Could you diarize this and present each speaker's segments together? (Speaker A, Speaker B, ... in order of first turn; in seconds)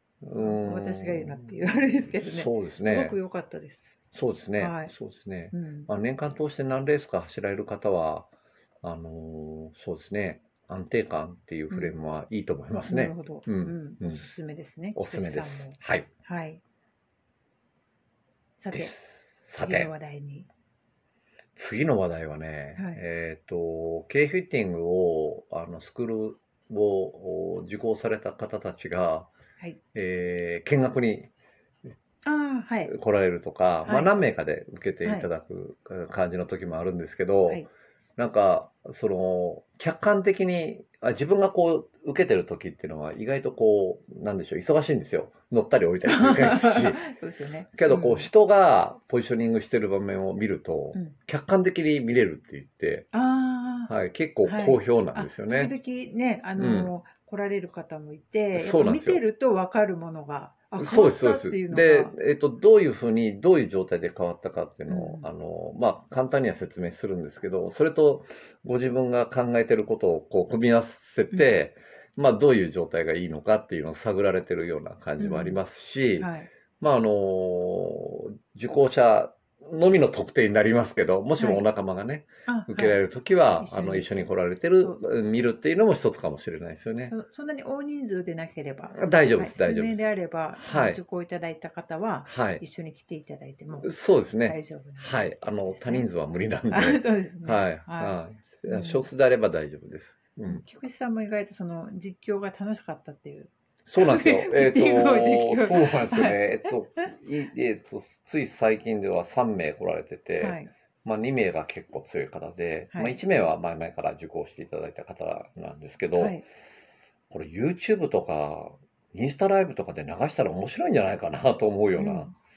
Speaker A: 0.2-1.5, 2.2-3.2, 4.1-8.3, 8.8-14.2, 14.9-16.1, 18.7-19.9, 21.6-29.3, 29.9-31.3, 32.9-37.6, 38.2-47.0, 47.8-53.1, 53.9-55.7, 56.6-56.9, 58.5-59.2, 60.8-87.1, 88.9-91.0, 92.2-92.6, 93.8-100.6, 103.8-116.4, 117.3-122.3
Speaker B: 0.3-3.9, 4.6-4.9, 5.5-5.9, 12.7-16.6, 18.6-18.9, 19.6-20.5, 22.8-23.0, 32.2-32.9, 33.8-34.1, 46.0-48.3, 53.1-53.9, 54.4-62.1, 64.9-65.3, 75.2-75.6, 76.2-76.5, 81.3-81.6, 82.5-83.0, 83.6-85.0, 87.1-93.9, 94.4-96.1, 96.7-99.1, 100.5-107.1, 110.4-110.7, 112.9-113.2, 116.2-116.4, 122.0-122.3